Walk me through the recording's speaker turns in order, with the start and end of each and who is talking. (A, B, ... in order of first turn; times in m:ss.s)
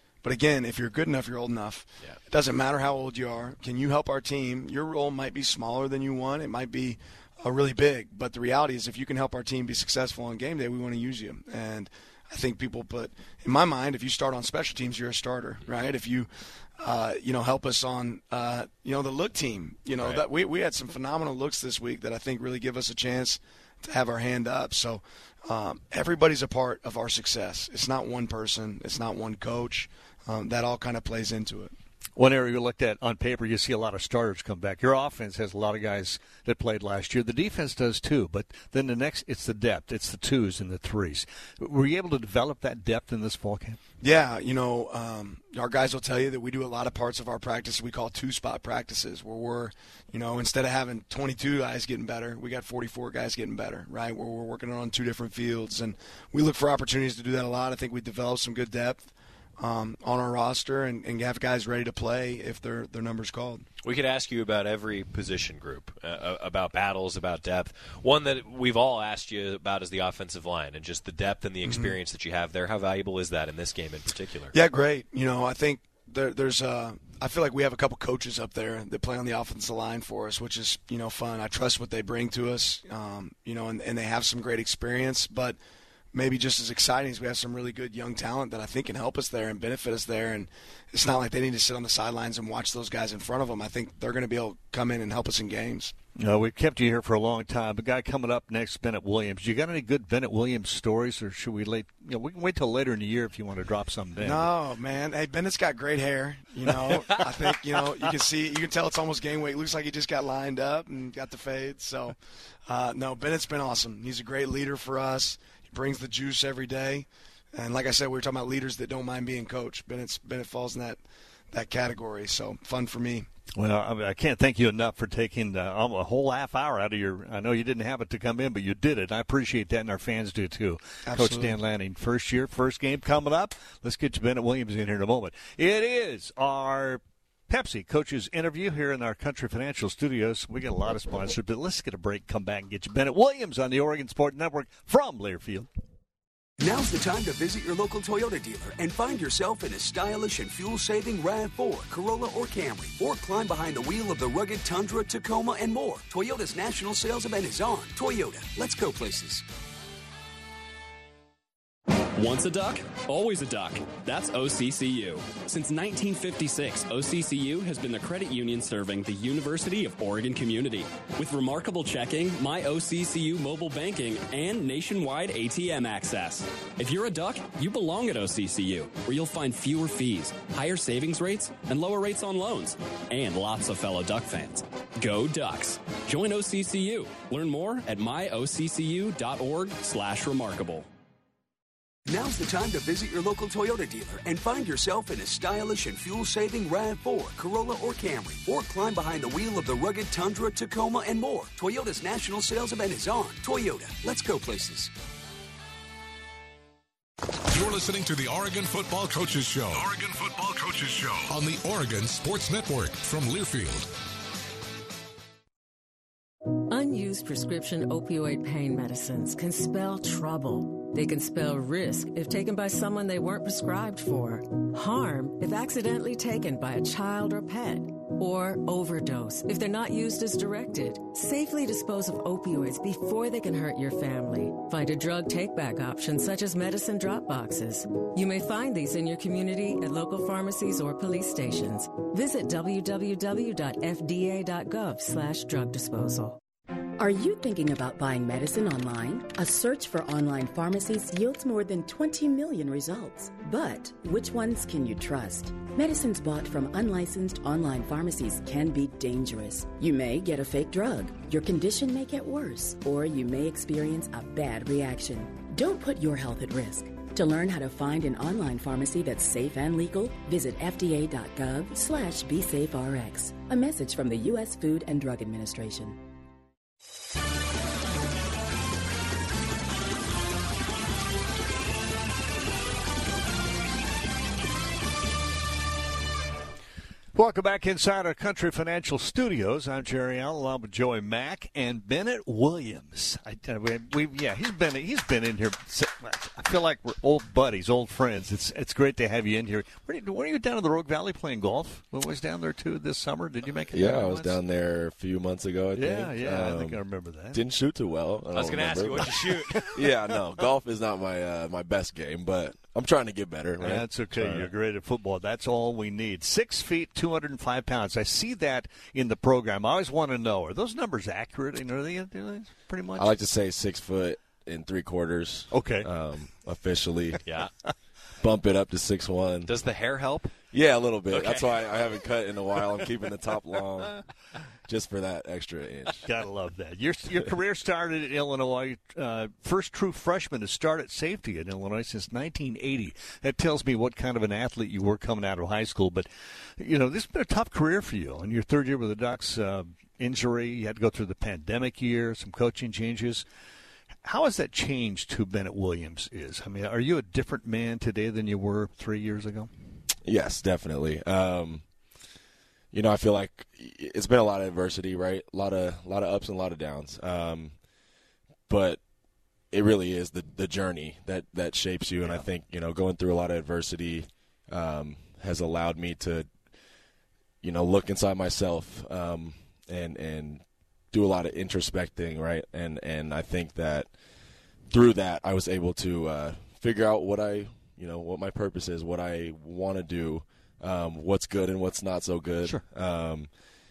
0:00.2-0:31.7 A
0:20.0-0:20.2 B
0:32.2-0:43.8 C
0:44.0-1:03.6 A
1:03.8-1:14.5 B
1:11.6-1:12.0 A
1:14.5-1:25.6 A
1:26.1-1:35.9 A
1:36.2-1:44.5 C
1:44.2-2:01.0 A
2:01.5-2:03.3 A
2:03.6-2:25.7 C
2:11.0-2:11.6 A
2:26.6-2:39.4 D
2:42.2-3:10.9 E
3:12.1-3:24.9 D
3:27.5-3:33.9 F
3:36.7-4:06.4 G
4:07.0-4:36.0 H
4:47.1-5:04.4 C
5:03.7-5:09.1 I
5:05.7-5:07.4 C
5:08.3-5:09.7 B
5:09.0-5:09.7 C
5:09.7-5:14.5 I
5:13.6-5:23.2 C
5:22.9-5:27.2 I
5:25.5-5:25.9 C
5:27.2-5:27.5 B
5:28.2-5:29.5 I
5:29.5-5:30.3 B
5:30.5-5:34.0 I
5:31.1-5:31.9 B
5:34.7-5:36.0 I
5:36.0-5:53.2 C
5:54.0-5:59.5 C
6:00.0-6:01.6 I
6:02.7-6:07.5 I
6:08.5-6:08.8 I
6:09.5-6:16.3 I
6:17.4-6:23.9 I
6:24.7-6:33.3 I